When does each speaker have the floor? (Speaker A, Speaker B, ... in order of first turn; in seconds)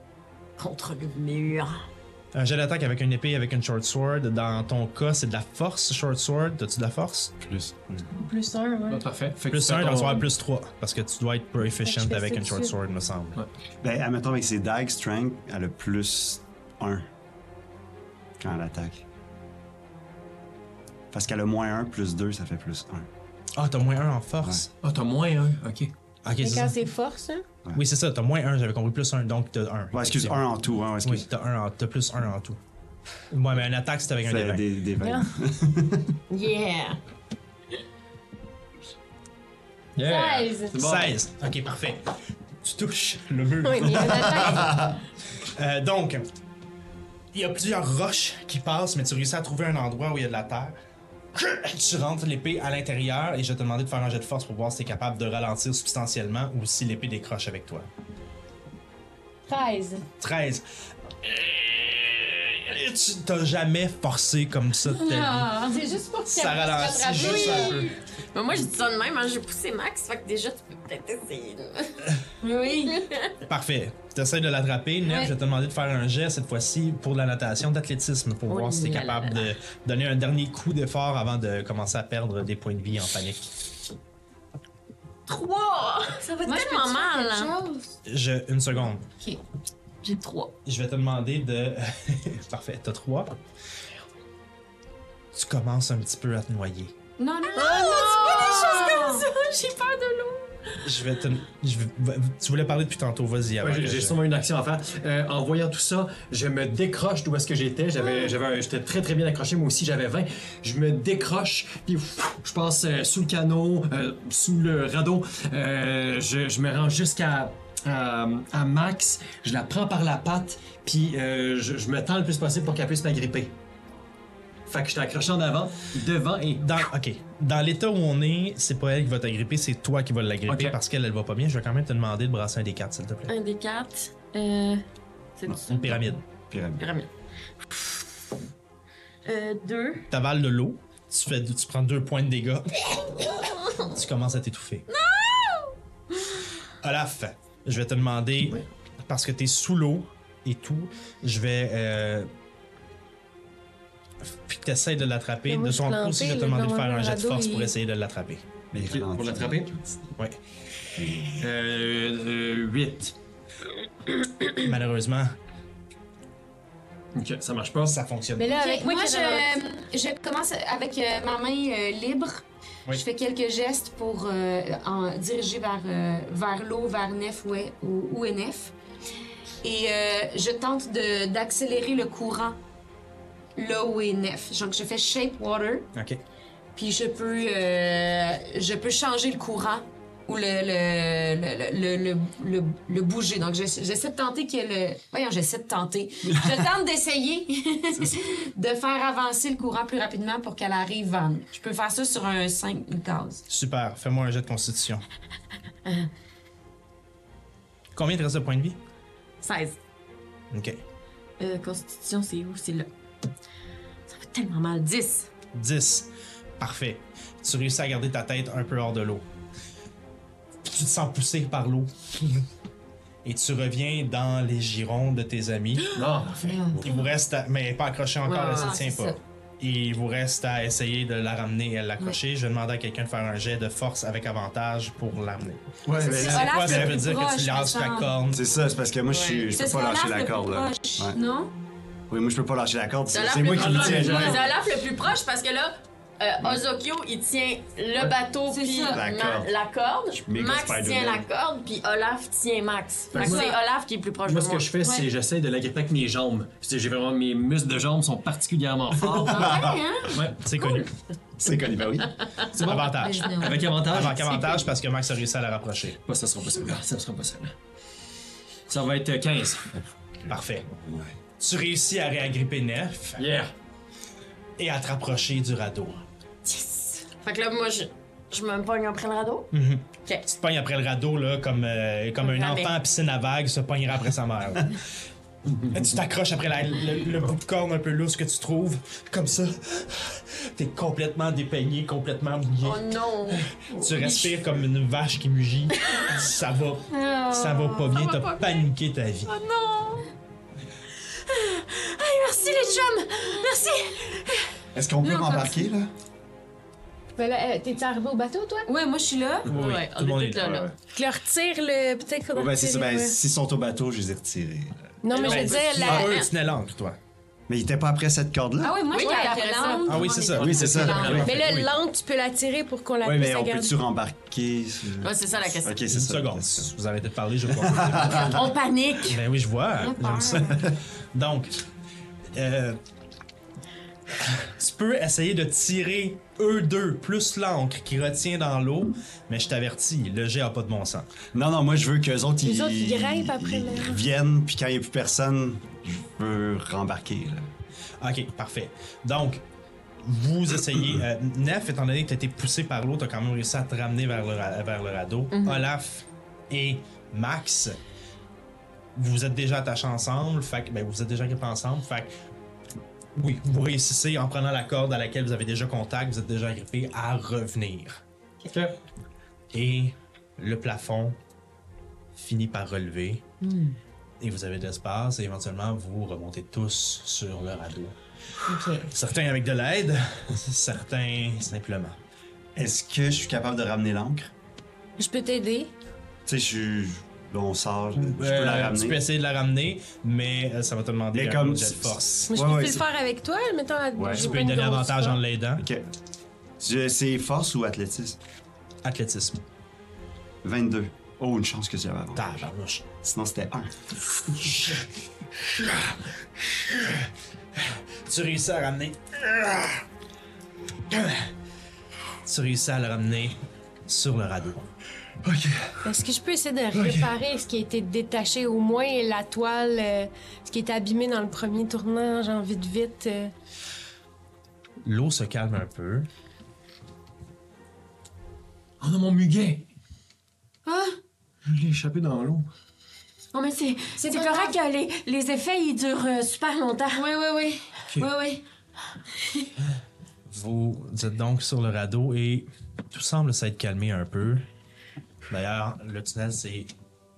Speaker A: 0.6-1.8, 36.3-37.0, 67.2-67.8, 68.3-72.0, 72.9-73.3, 78.5-79.5, 85.3-87.5, 90.0-90.5, 97.5-100.4, 133.3-134.8, 135.4-136.2, 136.8-137.1, 137.7-138.3, 139.2-140.1, 143.3-143.9, 144.9-146.4, 209.4-209.8, 211.4-212.9, 214.1-215.3, 228.3-228.7, 239.1-239.5, 243.1-254.7, 260.6-260.9, 262.7-263.5, 276.4-279.5, 282.2-282.7, 292.6-294.4, 295.8-296.2, 296.9-298.7, 299.3-300.1, 301.2-304.4, 309.5-310.7, 315.1-316.3, 318.9-321.2, 325.0-325.8, 327.9-329.2, 355.3-355.6, 433.3-437.0
Speaker B: 2.3-7.3, 9.5-13.4, 23.5-24.7, 26.2-26.8, 27.7-30.4, 31.0-32.6, 33.3-34.6, 40.7-44.8, 45.5-46.2, 47.3-50.8, 51.3-57.9, 60.2-60.6, 61.2-65.7, 66.3-67.9, 73.5-83.5, 88.0-89.1, 90.6-93.4, 95.3-96.9, 100.8-104.2, 126.6-133.3, 135.7-136.2, 140.1-144.8, 146.8-152.3, 154.2-158.4, 164.6-165.3, 167.9-168.6, 185.9-186.2, 203.5-205.0, 207.9-208.8, 210.5-210.8, 215.5-219.2, 220.6-222.4, 223.2-226.0, 226.8-238.4, 260.3-260.9, 262.5-263.3, 263.8-266.0, 270.3-270.7, 271.4-273.2, 274.6-276.0, 279.5-284.8, 285.7-299.3, 309.5-310.7, 315.2-317.0, 319.8-321.6, 325.9-328.5, 329.0-331.6, 332.3-332.8, 334.2-341.1, 348.0-349.4, 350.0-357.8, 358.9-362.1, 363.1-368.0, 369.5-371.2, 372.1-373.2, 374.2-377.9, 378.5-382.0, 387.9-392.3, 394.0-395.7, 398.8-399.4, 402.1-402.9, 404.3-404.8, 405.4-409.8, 410.9-411.3, 412.2-414.7, 424.8-426.1, 440.3-444.4, 445.2-446.7
Speaker C: 7.4-8.1, 13.8-17.1, 18.4-19.0, 21.1-23.1, 29.9-31.2, 34.2-36.1, 44.1-44.9, 136.5-136.8, 158.7-160.1, 160.9-161.4, 235.8-237.0, 238.3-241.2, 242.1-244.5, 248.9-249.5, 250.2-251.3, 259.1-259.8, 261.4-262.1, 270.3-271.1, 304.7-305.9, 312.3-314.9, 317.5-318.8, 320.3-321.5, 323.0-326.7, 327.5-328.4, 341.3-347.5, 382.6-384.3, 386.2-389.0, 391.1-392.8, 394.0-394.3, 395.6-395.9, 396.6-398.2, 400.4-402.3, 403.0-404.6
Speaker D: 8.2-9.0, 11.8-12.7, 26.4-27.4, 35.0-35.3, 40.0-40.7, 43.6-44.8, 59.5-60.0, 65.7-67.9, 97.6-99.0, 155.4-157.7, 168.4-169.5, 307.2-308.7, 310.9-313.1, 315.0-316.2, 321.2-323.8, 342.4-344.0, 385.0-385.7, 392.3-395.2, 415.8-423.3
Speaker E: 8.9-10.3, 24.8-25.9, 40.0-41.2, 103.6-123.5, 124.7-126.8, 130.4-130.8, 158.8-159.7, 161.4-163.1, 167.1-168.0, 225.9-226.8, 243.5-244.5, 253.1-253.5, 254.2-260.5, 262.7-264.5, 266.1-267.5, 268.7-269.8, 273.2-273.5, 320.4-321.7, 368.5-368.8, 428.8-429.7, 431.4-432.5
Speaker F: 64.9-67.8, 72.4-73.1, 86.4-88.0, 97.2-99.3, 168.5-178.7, 179.6-182.6, 183.6-185.9, 186.8-203.4, 226.3-227.1, 228.3-229.2, 236.0-238.1, 239.5-241.5, 248.5-249.0, 253.1-253.5, 254.8-255.1, 259.1-260.1, 262.6-263.7, 302.4-302.9, 305.1-305.6, 308.7-309.5, 318.6-321.4, 329.7-330.7, 373.4-373.8, 378.4-378.9, 430.6-431.0, 434.0-434.5, 436.9-438.4